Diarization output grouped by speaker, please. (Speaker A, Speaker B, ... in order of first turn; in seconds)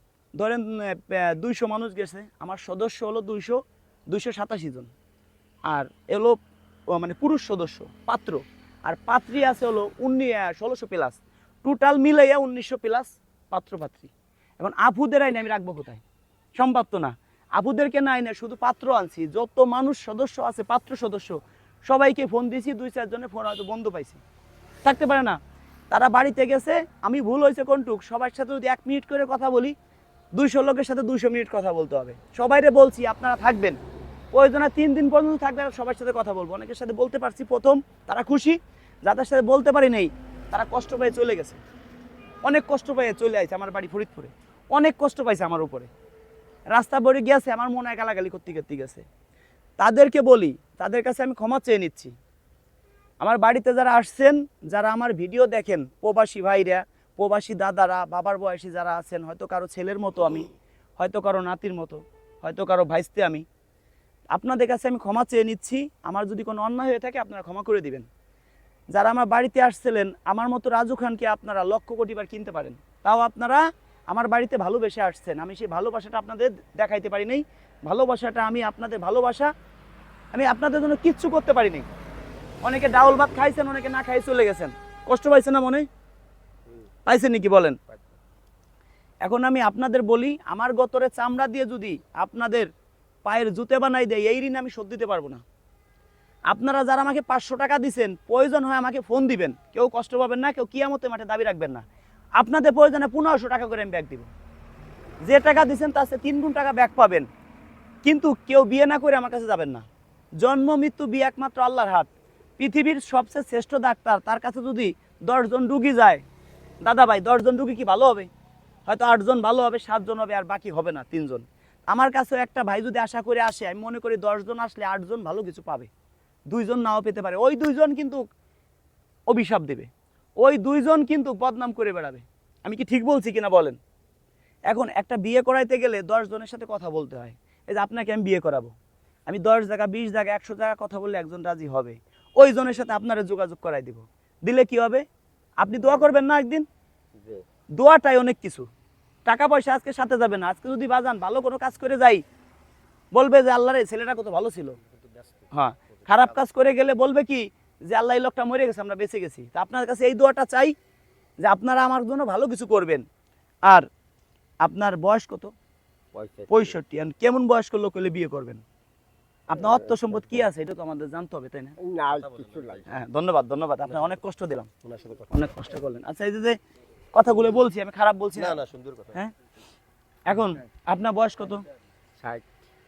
Speaker A: 0.4-4.9, 5.7-6.4, 6.9-16.0, 16.6-24.2, 24.8-25.4, 25.9-29.7, 30.4-33.8, 34.3-41.6, 42.4-45.9, 46.7-49.0, 49.8-52.1, 53.2-60.5, 61.0-63.4, 64.3-68.1, 68.9-79.5, 80.3-81.9, 82.6-85.9, 87.1-87.8, 89.2-92.7, 93.2-95.4, 96.5-101.8, 102.4-104.3, 105.2-107.3, 108.0-109.8, 110.4-116.2, 116.8-118.3, 118.9-125.9, 126.5-128.2, 129.3-129.9, 130.4-133.8, 134.7-138.7, 139.3-145.0, 145.6-146.7, 147.8-148.7, 149.2-152.2, 153.1-154.8, 155.5-160.7, 161.4-163.0, 164.6-165.5, 166.5-168.6, 169.5-171.8, 172.9-174.7, 175.3-176.6, 177.1-178.6, 180.3-181.6
Speaker B: 147.2-147.4, 155.0-155.5, 166.1-166.8, 169.5-170.2, 171.8-172.9, 174.8-175.3, 178.4-179.2, 182.2-182.5